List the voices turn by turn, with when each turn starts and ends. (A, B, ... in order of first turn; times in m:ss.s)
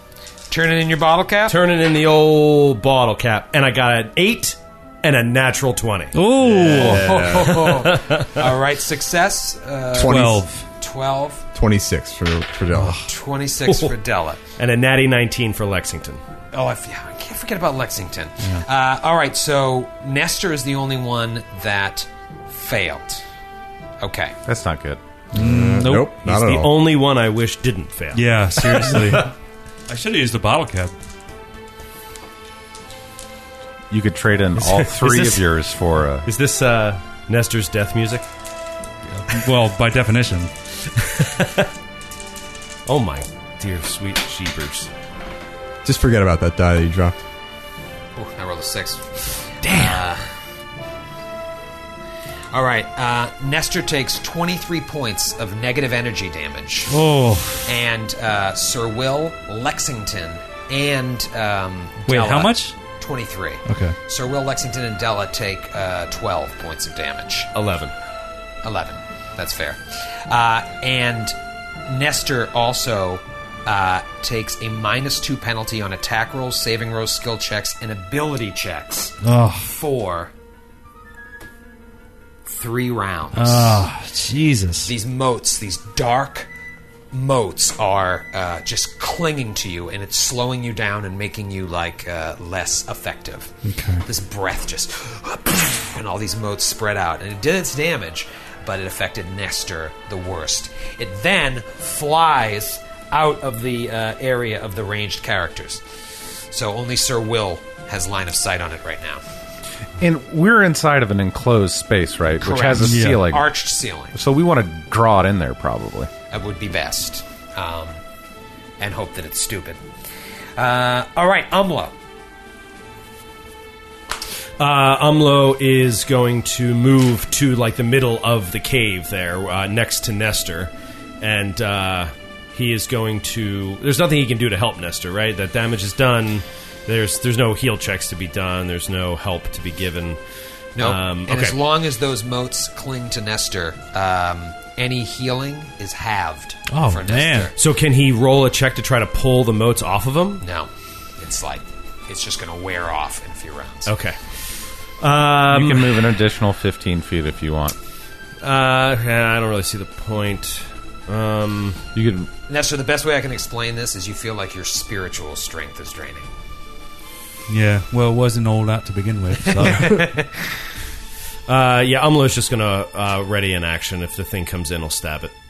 0:00.5-0:01.6 A
0:01.5-0:06.2 B
0:06.1-0:07.2 C
0:06.4-0:07.7 D
0:06.6-0:11.4 A
0:07.4-0:08.4 B
0:09.9-0:10.4 D
0:10.0-0:10.6 C
0:11.6-0:13.0 D
0:12.7-0:13.1 C
0:13.0-0:14.4 A
0:13.7-0:13.9 B
0:14.6-0:16.2 B
0:16.5-0:23.2 A
0:24.0-0:24.4 A
0:24.5-0:25.0 E
0:25.3-0:26.7 D
0:25.3-0:26.1 C
0:26.2-0:29.3 B
0:28.1-0:29.3 C
0:29.9-0:30.9 C
0:33.9-0:36.3 E
0:34.6-0:35.5 B
0:36.2-0:38.2 B
0:39.1-0:40.5 C
0:41.0-0:41.7 B
0:42.9-0:44.9 B
0:45.8-0:47.2 D
0:48.2-0:50.2 A
0:52.5-0:56.9 A
0:56.9-0:57.7 C
0:57.7-1:07.5 A
1:02.1-1:02.8 C
1:03.7-1:04.0 C
1:07.5-1:07.9 B
1:08.6-1:11.4 A
1:11.9-1:20.3 A
1:19.2-1:19.7 C
1:22.4-1:23.8 A
1:23.3-1:24.9 C
1:24.8-1:26.5 A
1:27.1-1:45.8 A
1:33.6-1:34.0 C
1:46.5-1:49.2 A
1:50.0-1:53.5 E
1:52.4-1:54.2 A
1:52.8-1:53.2 C
1:54.2-1:56.1 E
1:56.3-1:58.0 A
1:58.8-1:59.8 A
2:00.6-2:02.0 A
2:04.6-2:20.2 B
2:20.8-2:27.6 A
2:20.8-2:21.6 B
2:26.7-2:27.5 C
2:27.6-2:30.4 B
2:30.4-2:33.9 A
2:33.9-2:34.2 B
2:35.0-2:36.2 B
2:35.5-2:37.8 E
2:38.4-2:41.8 B
2:42.0-2:42.3 E
2:42.5-2:46.3 A
2:47.5-2:50.0 C
2:49.6-2:50.3 A
2:51.5-2:55.3 B